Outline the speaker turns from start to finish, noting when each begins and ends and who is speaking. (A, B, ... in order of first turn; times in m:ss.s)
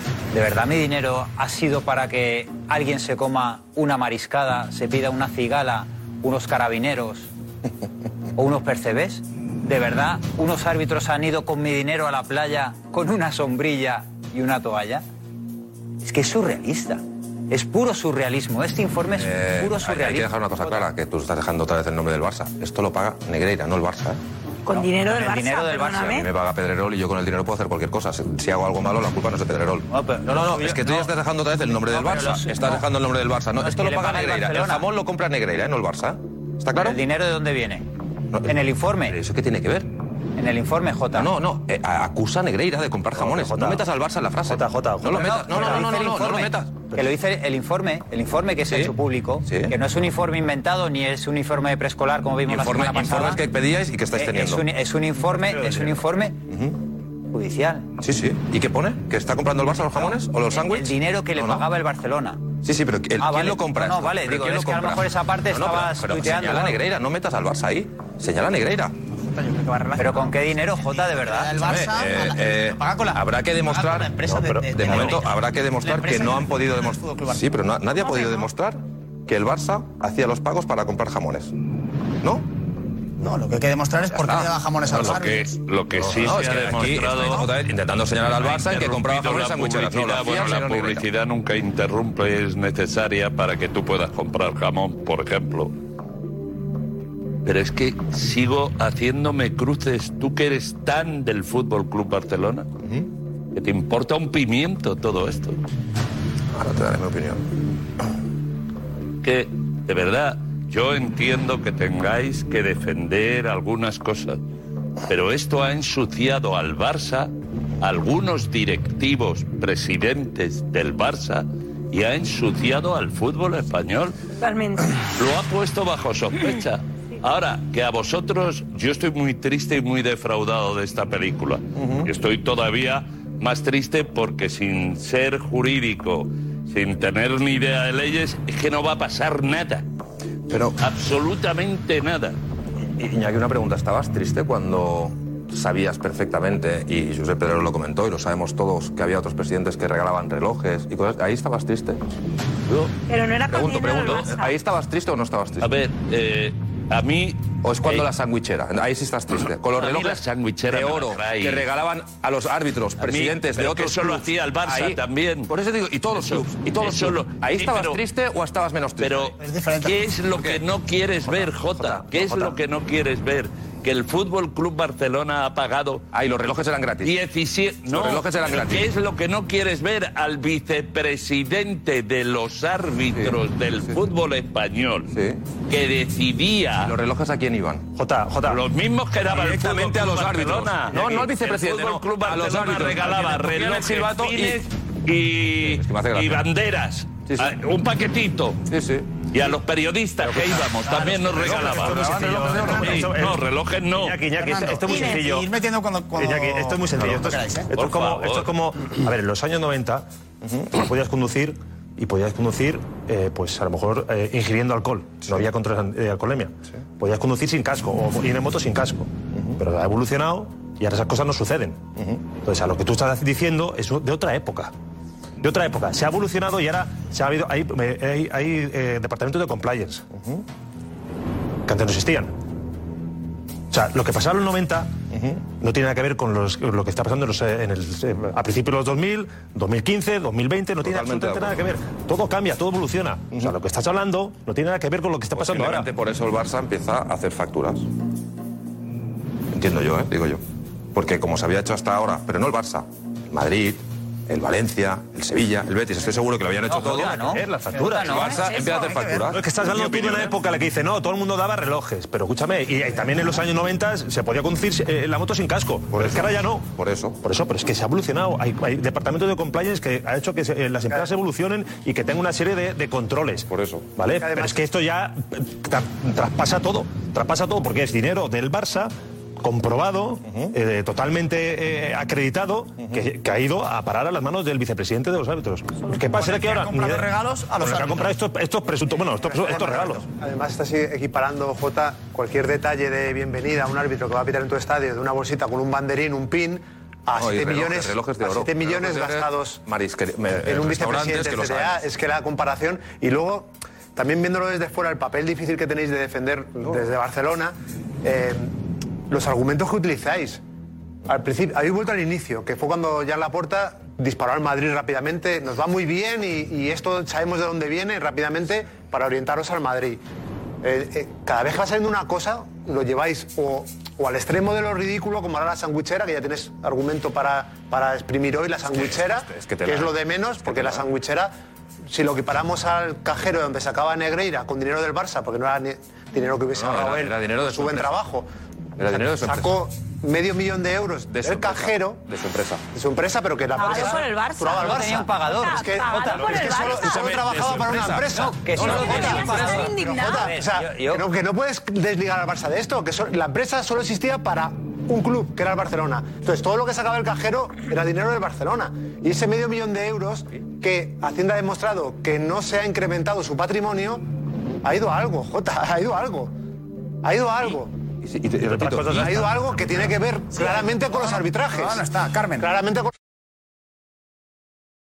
0:00.3-0:07.3 A
0:08.4-0:15.0 A
0:16.0-0:20.9 A
0:19.2-0:24.2 B
0:24.7-0:26.2 C
0:24.7-0:26.3 A
0:26.2-0:37.0 B
0:29.9-0:31.1 A
0:31.6-0:32.9 A
0:33.6-0:34.9 A
0:36.8-0:37.9 A
0:38.4-0:39.2 A
0:39.1-0:39.9 B
0:40.4-0:41.3 A
0:41.1-0:46.7 B
0:43.2-0:43.8 D
0:44.5-0:45.9 D
0:45.1-0:53.4 A
0:49.5-0:49.7 B
0:52.5-0:54.7 B
0:54.2-0:56.4 A
0:55.4-0:56.0 D
0:57.3-0:57.9 A
0:58.0-1:01.6 B
1:00.0-1:02.4 A
1:02.6-1:08.9 B
1:03.2-1:06.8 A
1:09.2-1:18.5 E
1:10.0-1:11.6 A
1:11.6-1:21.5 B
1:14.3-1:15.0 D
1:22.2-1:22.5 B
1:23.2-1:25.5 E
1:24.1-1:24.5 B
1:24.9-1:27.6 F
1:26.0-1:31.1 B
1:28.1-1:35.7 F
1:37.4-1:42.7 F
1:43.5-1:45.6 F
1:46.5-1:47.4 B
1:49.2-1:54.4 F
1:55.1-2:04.2 F
2:04.4-2:05.0 C
2:05.2-2:19.8 F
2:11.8-2:12.1 B
2:20.5-2:20.8 B
2:20.8-2:22.4 F
2:23.0-2:32.1 B
2:33.1-2:34.6 C
2:33.5-2:35.7 B
2:35.6-2:38.1 F
2:37.6-2:49.4 B
2:39.7-2:41.7 F
2:43.0-2:45.5 F
2:46.1-2:48.0 F
2:49.0-2:56.0 F
2:49.4-2:50.1 E
2:50.3-2:50.6 B
2:51.3-2:52.6 B
2:56.1-2:57.2 B
2:57.0-3:05.1 F
2:57.9-2:58.9 B
3:05.1-3:05.4 B
3:05.7-3:07.0 F
3:06.8-3:07.9 B
3:08.0-3:08.6 D
3:08.4-3:18.6 F
3:09.3-3:14.7 B
3:15.6-3:16.4 B
3:18.7-3:19.1 B
3:19.3-3:24.2 F
3:20.4-3:23.1 B
3:21.0-3:25.5 D
3:24.4-3:27.7 E
3:26.1-3:30.1 D
3:27.7-3:28.5 F
3:30.7-3:44.7 D
3:45.4-3:50.1 D
3:51.7-3:52.3 D
3:53.7-3:55.0 D
3:55.5-4:05.9 D
4:00.8-4:01.6 B
4:05.4-4:07.9 B
4:09.5-4:10.4 B
4:10.9-4:17.4 B
4:16.7-4:18.5 A
4:17.2-4:18.2 D
4:18.0-4:20.3 B
4:18.2-4:19.3 E
4:19.3-4:26.7 D
4:25.9-4:27.2 B
4:27.2-4:47.1 D
4:33.5-4:33.9 B
4:34.2-4:34.6 G
4:40.3-4:40.5 B
4:45.9-4:48.1 E
4:47.6-4:50.1 D
4:49.2-4:59.6 G
4:57.2-5:01.8 B
5:00.3-5:08.6 G
5:09.1-5:10.4 G
5:11.1-5:20.0 G
5:20.6-5:31.3 G
5:28.7-5:30.9 B
5:31.9-5:38.3 G
5:36.5-5:38.1 B
5:38.8-5:39.6 B
5:38.8-5:42.0 G
5:41.1-5:42.6 B
5:42.7-6:04.1 G
5:43.6-5:47.2 C
5:44.5-5:46.5 A
5:46.3-5:49.7 B
5:48.1-5:51.0 A
5:48.6-5:50.3 C
6:04.6-6:06.3 G
6:07.0-6:07.8 G
6:08.0-6:09.2 B
6:08.4-6:09.3 D
6:08.9-6:11.9 G
6:10.4-6:12.5 E
6:12.4-6:12.9 G